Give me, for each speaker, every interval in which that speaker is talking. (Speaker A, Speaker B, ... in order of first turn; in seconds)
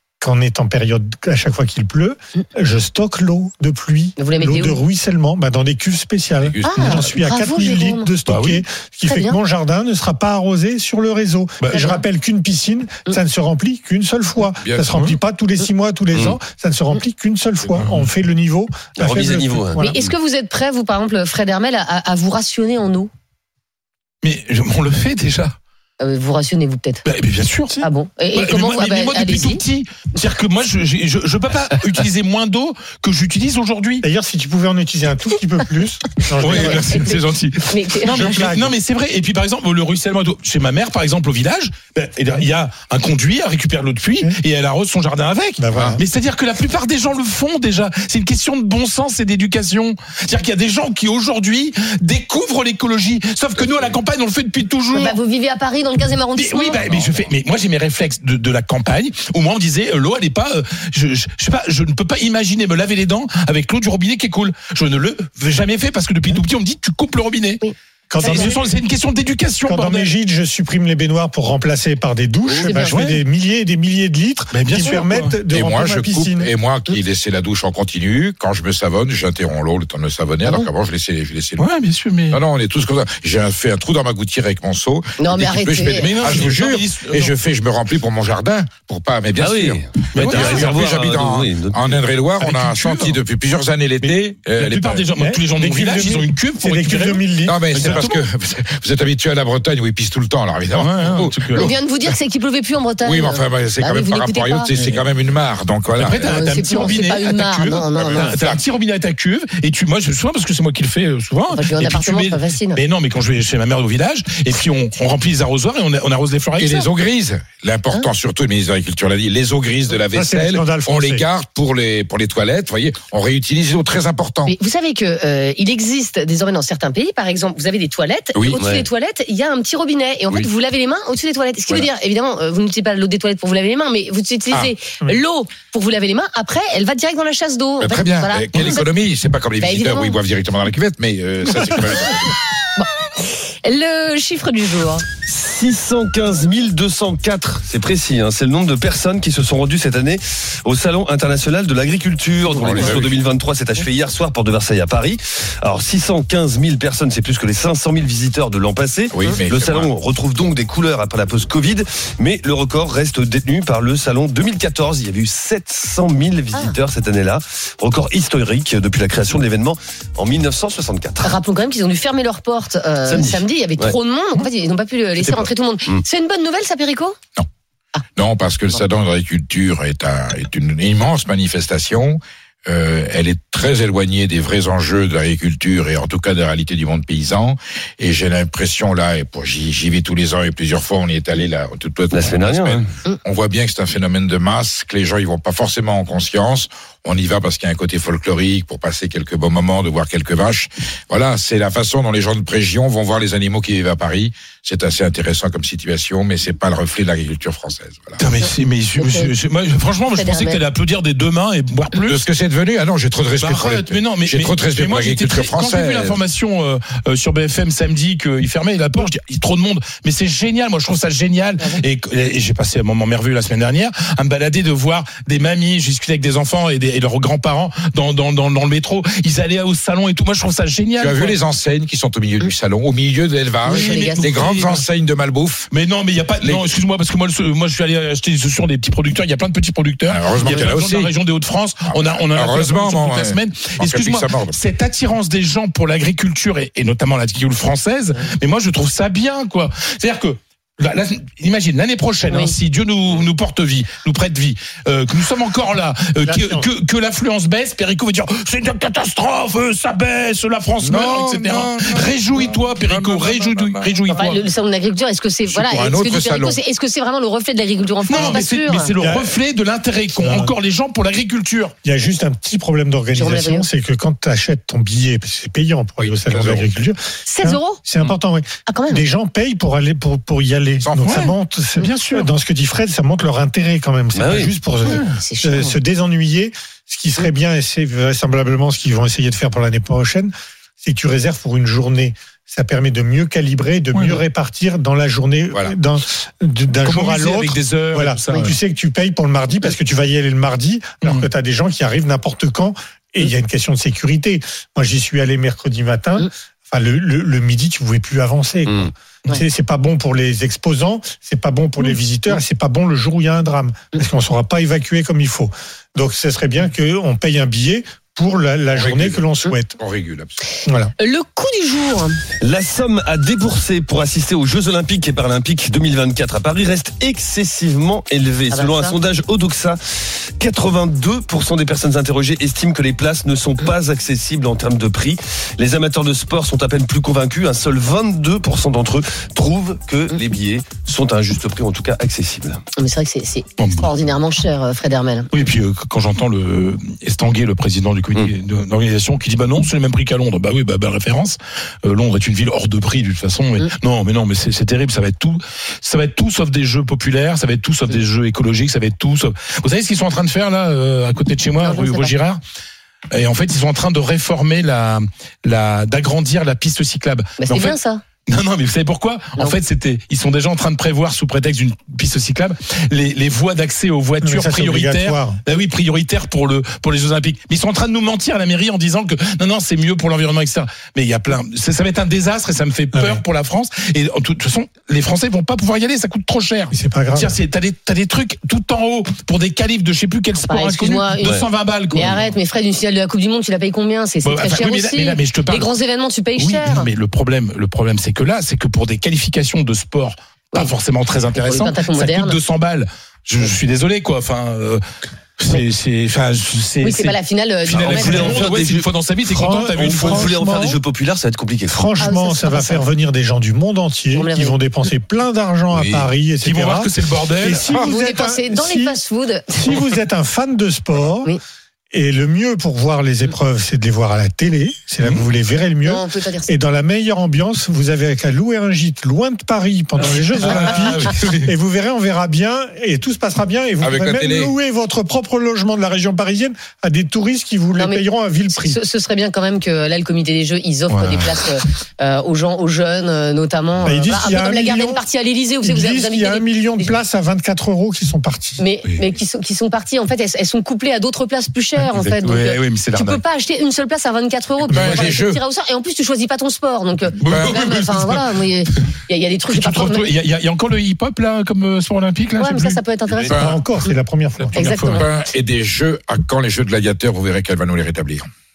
Speaker A: 0.2-19.9, 34.0-37.0, 38.0-38.7, 45.6-46.0, 68.1-68.6, 69.6-76.5, 95.2-98.0, 120.1-121.2, 256.2-256.7, 269.0-269.4, 270.2-270.5, 271.8-319.8, 320.6-320.9, 374.2-375.4, 382.9-383.2, 386.7-387.3, 409.3-410.8, 411.7-419.0, 419.5-421.3, 421.9-438.8, 443.8-445.1, 445.6-448.6, 454.7-455.1, 463.3-464.6
Speaker B: 4.2-4.8, 6.6-8.1, 9.0-9.4, 19.8-23.1, 26.0-27.0, 27.8-29.6, 36.4-38.2, 54.9-56.8, 67.6-68.5, 72.6-73.2, 85.2-86.2, 101.5-104.7, 106.2-108.4, 111.5-112.8, 124.5-138.9, 139.6-140.2, 142.8-145.0, 171.2-177.2, 209.0-209.3, 210.1-210.6, 233.6-234.3, 252.3-252.5, 264.1-268.9, 273.1-273.7, 277.2-277.8, 278.7-279.1, 284.8-285.8, 321.0-322.2, 328.5-329.0, 342.8-345.3, 361.6-362.1, 367.4-368.0, 390.4-396.9, 401.3-402.4, 406.8-408.5, 412.0-412.8, 414.1-414.6, 417.7-419.8, 425.8-426.6, 437.7-446.9, 448.6-460.1, 462.4-463.4, 464.5-465.1
Speaker C: 6.4-7.2, 14.6-14.9, 53.5-54.0, 56.8-57.3, 72.4-72.8, 75.5-81.7, 82.3-95.1, 97.4-101.7, 103.0-106.4, 107.9-108.6, 116.6-124.5, 137.8-142.3, 152.5-153.1, 159.1-159.9, 178.2-208.3, 211.9-216.2, 231.0-235.7, 236.4-236.7, 240.1-241.1, 241.9-244.6, 260.8-264.0, 265.5-266.6, 276.0-276.7, 295.5-295.8, 318.7-319.2, 319.8-320.4, 415.7-416.1, 433.8-434.5, 454.7-455.4, 457.2-457.6, 463.1-463.6, 464.9-468.3
Speaker D: 8.3-8.6, 11.6-12.0, 17.8-18.1, 24.2-25.5, 27.0-34.0, 36.4-55.2, 56.3-67.6, 68.2-70.1, 72.9-73.2, 74.5-75.3, 81.6-82.4, 86.0-87.3, 90.1-90.9, 92.4-93.2, 94.0-98.2, 100.7-101.7, 104.7-105.0, 105.9-116.9, 152.4-153.1, 208.2-212.2, 213.4-231.4, 233.7-234.9, 235.7-264.4, 268.0-271.7, 281.0-282.3, 284.8-285.1, 293.9-294.2, 296.8-298.5, 301.0-301.3, 343.6-343.9, 345.3-362.4, 363.1-392.3, 394.2-395.7, 396.4-404.8, 405.4-410.4, 416.4-417.7, 430.0-431.5, 440.9-441.4, 451.8-453.2, 457.2-458.8, 459.5-462.8, 464.4-465.1
Speaker E: 16.1-16.4, 19.0-20.1, 89.3-92.0, 128.6-128.8, 145.2-171.4, 173.0-173.9, 175.2-176.0, 192.1-192.8, 284.1-284.5, 308.7-308.9, 322.4-342.6, 407.7-408.9, 409.5-411.9